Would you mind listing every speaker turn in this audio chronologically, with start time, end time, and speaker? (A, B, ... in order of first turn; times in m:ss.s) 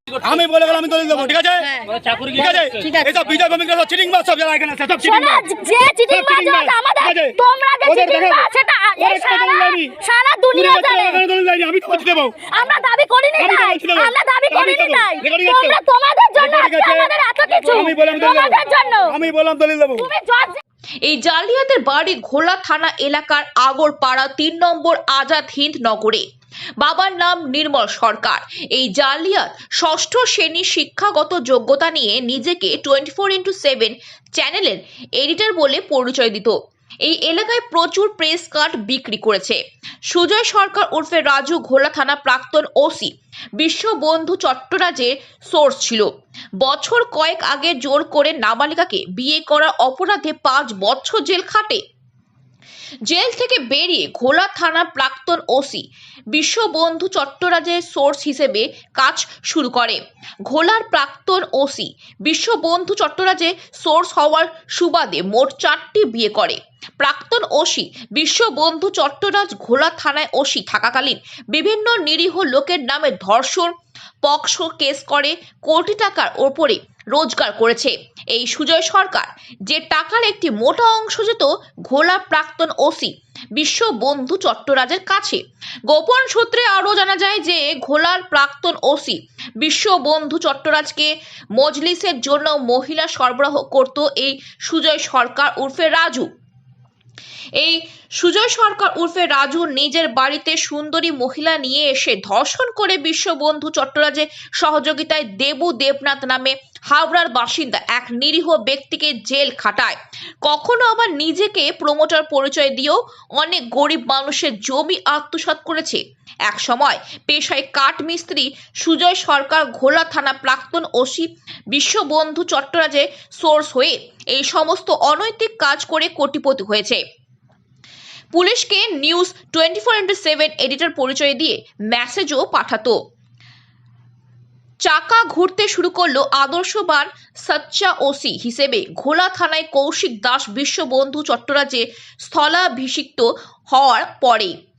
0:00.2-0:05.4 A
0:05.0-0:11.2 B
0:06.1-0:08.5 A
0:09.0-0:09.9 A
0:10.5-0:12.4 A
0:12.5-0:19.2 B
0:13.4-0:15.8 A
0:16.4-0:17.1 A
0:17.7-0:20.1 A
0:20.0-0:20.6 B
0:21.0-0:26.2 C
0:26.8-0:39.6 C
0:40.1-0:46.1 C
0:46.6-0:51.8 C
0:53.1-1:13.7 C
1:14.2-1:36.3 C
1:37.6-2:07.0 C
2:08.3-2:13.0 C
2:14.8-2:24.5 C